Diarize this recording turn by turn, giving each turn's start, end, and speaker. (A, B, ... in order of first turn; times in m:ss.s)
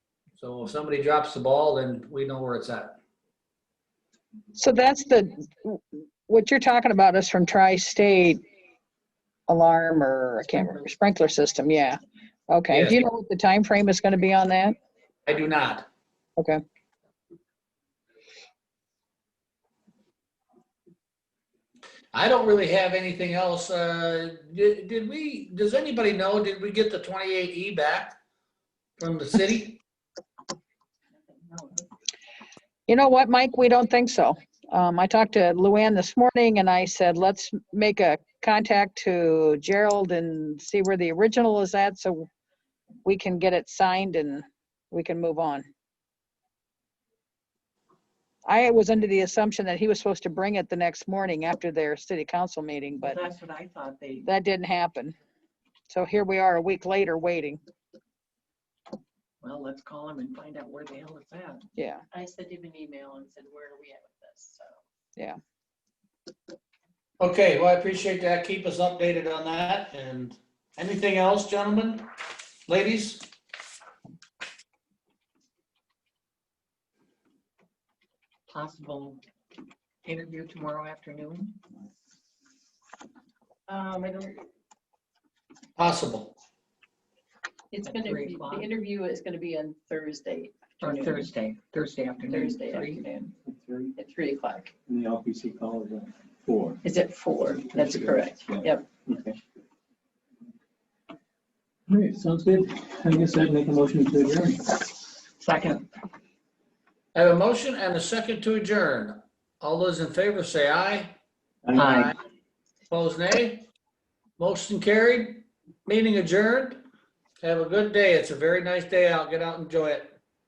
0:00.4-0:03.0 A
0:04.6-0:08.4 B
0:09.5-0:14.8 B
0:12.7-0:13.0 A
0:15.3-0:15.9 A
0:22.1-0:28.2 A
0:29.0-0:29.8 A
0:31.2-0:31.9 C
0:32.9-0:42.3 B
0:43.0-0:45.7 B
0:48.5-0:53.2 B
0:53.0-0:54.3 C
0:54.2-0:55.2 B
0:55.9-0:57.6 B
0:59.4-1:01.7 C
1:01.8-1:02.0 B
1:02.1-1:04.8 D
1:07.2-1:12.1 A
1:12.7-1:13.3 A
1:18.5-1:19.2 C
1:20.0-1:21.6 C
1:23.7-1:24.4 D
1:25.8-1:26.4 A
1:27.7-1:31.3 D
1:27.8-1:28.7 C
1:30.8-1:33.1 C
1:32.3-1:33.3 D
1:33.4-1:33.9 E
1:34.0-1:34.7 D
1:34.9-1:36.8 E
1:36.8-1:38.9 D
1:37.5-1:39.4 E
1:41.9-1:44.8 E
1:45.4-1:45.9 C
1:47.1-1:51.2 A
1:51.6-1:52.0 E
1:51.8-1:52.1 C
1:51.8-1:52.1 A
1:52.9-1:53.6 A
1:54.4-1:56.8 A
1:57.4-2:00.2 A